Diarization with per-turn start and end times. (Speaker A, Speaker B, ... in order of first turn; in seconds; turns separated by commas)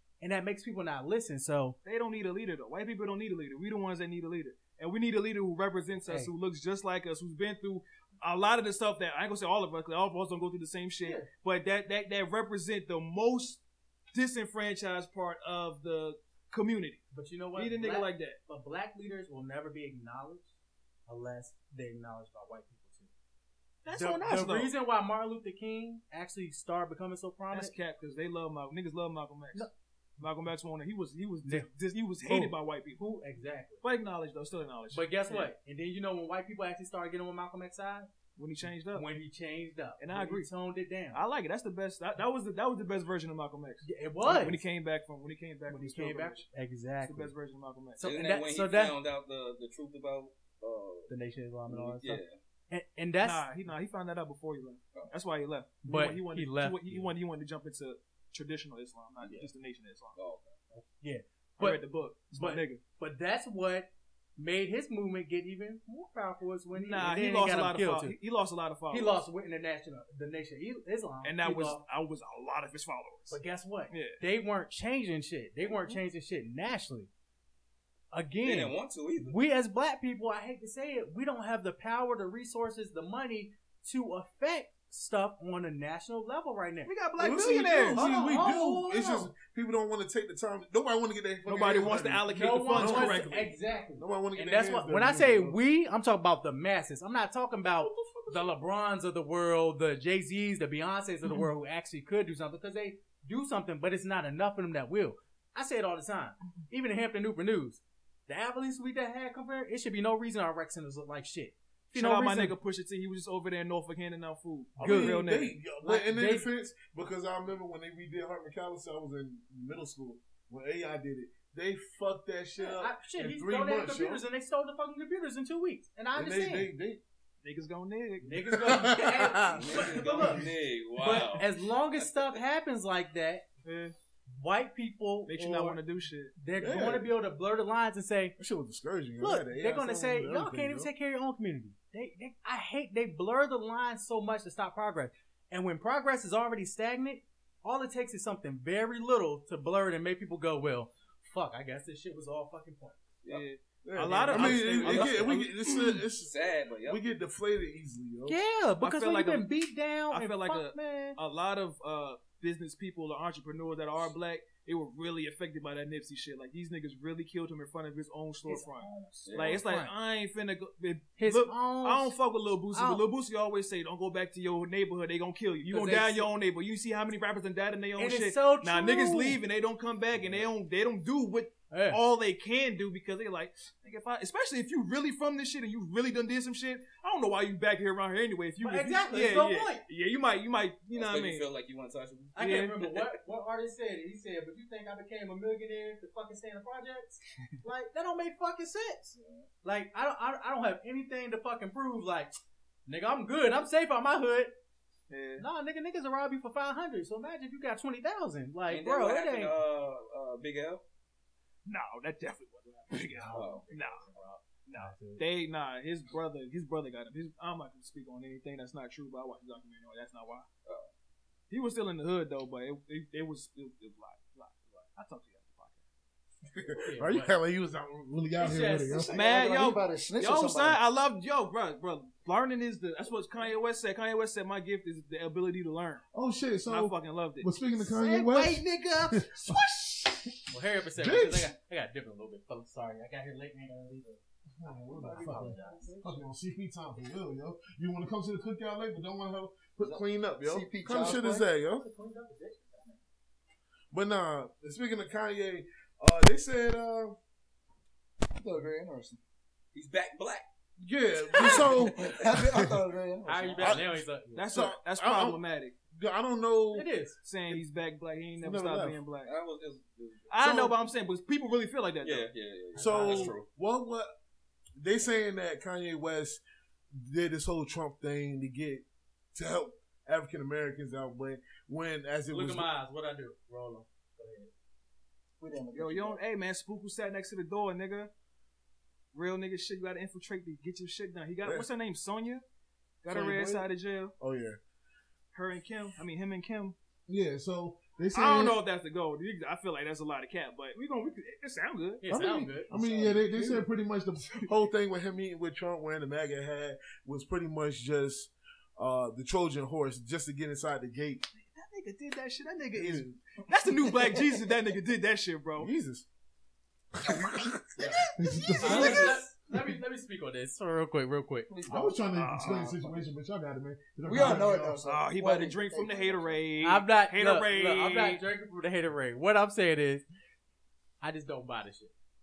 Speaker A: 0.2-1.8, Speaker B: 1.8-13.6, Speaker A: 11.0-11.3, Speaker B: 14.1-17.0, Speaker A: 17.1-20.5, Speaker B: 17.5-18.4, Speaker A: 21.1-23.1, Speaker B: 23.8-24.7, Speaker A: 23.9-27.7, Speaker B: 27.5-33.0, Speaker A: 32.2-33.8, Speaker B: 33.8-35.5, Speaker A: 34.9-38.1, Speaker B: 38.4-39.1, Speaker A: 38.9-41.2, Speaker B: 40.0-40.5, Speaker B: 41.1-46.5, Speaker A: 43.8-44.6, Speaker A: 45.7-47.3, Speaker B: 47.0-48.0, Speaker A: 48.0-49.0, Speaker C: 48.0-51.1, Speaker A: 51.1-53.5, Speaker C: 51.7-52.4, Speaker B: 53.2-60.2, Speaker A: 55.8-57.1, Speaker C: 60.1-60.6, Speaker A: 60.7-61.8, Speaker B: 61.6-62.8, Speaker A: 62.3-68.2, Speaker B: 66.7-69.2, Speaker A: 68.9-71.8, Speaker B: 71.2-73.4, Speaker A: 73.3-77.1, Speaker B: 73.9-74.2, Speaker B: 75.6-76.0, Speaker A: 78.1-86.9, Speaker C: 78.4-79.4, Speaker B: 86.8-88.1, Speaker D: 87.2-95.6, Speaker A: 87.9-89.3, Speaker B: 91.4-93.5, Speaker A: 92.3-112.5, Speaker D: 97.9-98.5, Speaker B: 111.9-115.5, Speaker D: 114.8-124.2, Speaker A: 114.8-115.3, Speaker A: 115.8-116.5, Speaker A: 122.6-126.7, Speaker D: 126.1-127.0, Speaker B: 127.4-128.7, Speaker A: 128.2-133.4, Speaker D: 128.4-130.5, Speaker C: 129.5-132.4, Speaker B: 133.6-133.9, Speaker A: 134.3-135.8, Speaker B: 135.2-136.3, Speaker A: 136.3-138.4, Speaker D: 136.6-137.1, Speaker D: 138.4-140.9, Speaker A: 139.2-153.0, Speaker B: 153.3-156.0, Speaker D: 153.8-158.4, Speaker A: 154.3-155.1, Speaker C: 154.3-155.5, Speaker C: 156.2-157.0, Speaker A: 158.2-161.2, Speaker B: 158.8-159.4, Speaker B: 160.1-191.4, Speaker A: 168.4-169.9, Speaker C: 169.2-169.6, Speaker A: 171.2-172.1, Speaker A: 172.7-173.0, Speaker A: 175.6-176.3, Speaker A: 178.0-179.4, Speaker A: 181.7-182.0, Speaker A: 188.6-189.8, Speaker C: 190.9-193.1, Speaker A: 192.3-202.3, Speaker B: 192.4-192.8, Speaker C: 199.1-199.5, Speaker A: 202.8-204.5, Speaker B: 205.1-205.5, Speaker A: 205.4-209.5, Speaker C: 208.7-210.8, Speaker B: 211.7-214.1, Speaker A: 213.1-215.2, Speaker C: 213.3-213.9, Speaker B: 214.7-220.5, Speaker C: 220.6-220.9, Speaker B: 221.5-225.8, Speaker D: 226.5-229.1, Speaker A: 226.8-227.3, Speaker A: 228.4-229.0, Speaker E: 228.9-230.8, Speaker B: 229.1-236.0, Speaker D: 236.1-239.6, Speaker B: 236.7-240.2, Speaker A: 240.5-244.2, Speaker D: 241.0-241.5, Speaker D: 244.5-251.8, Speaker E: 244.7-246.2, Speaker A: 245.1-245.9, Speaker E: 249.8-251.4, Speaker A: 251.8-253.0, Speaker D: 253.9-257.1, Speaker E: 258.4-259.2, Speaker C: 259.7-260.4, Speaker D: 260.8-262.0, Speaker C: 261.3-262.2, Speaker E: 261.4-263.8, Speaker D: 262.5-262.8, Speaker A: 263.2-264.5, Speaker D: 263.6-264.0, Speaker B: 264.3-265.7, Speaker D: 264.5-265.4, Speaker D: 265.9-266.9, Speaker A: 266.7-267.2, Speaker B: 267.2-269.3, Speaker D: 268.4-269.0, Speaker C: 269.2-270.3, Speaker B: 270.3-272.3, Speaker D: 270.4-270.7, Speaker C: 272.0-273.4, Speaker A: 272.8-273.4, Speaker D: 272.8-274.1, Speaker D: 274.8-282.7, Speaker A: 282.3-284.5, Speaker E: 285.4-286.2, Speaker B: 285.7-288.1, Speaker B: 289.1-292.4, Speaker B: 293.0-294.1, Speaker D: 293.1-293.6, Speaker D: 294.2-294.6, Speaker B: 295.3-296.7, Speaker D: 297.1-298.6, Speaker B: 298.1-302.6, Speaker A: 302.0-303.1, Speaker D: 302.7-311.2, Speaker B: 303.1-303.6, Speaker B: 311.4-315.7, Speaker D: 312.7-313.2, Speaker D: 315.6-316.0, Speaker D: 317.0-319.7, Speaker A: 317.8-321.5, Speaker E: 318.2-319.2, Speaker B: 318.6-319.1, Speaker E: 321.5-323.1, Speaker D: 321.7-324.8, Speaker B: 322.1-322.7, Speaker E: 324.0-326.4, Speaker B: 324.2-328.2, Speaker A: 326.6-330.0, Speaker A: 331.0-331.9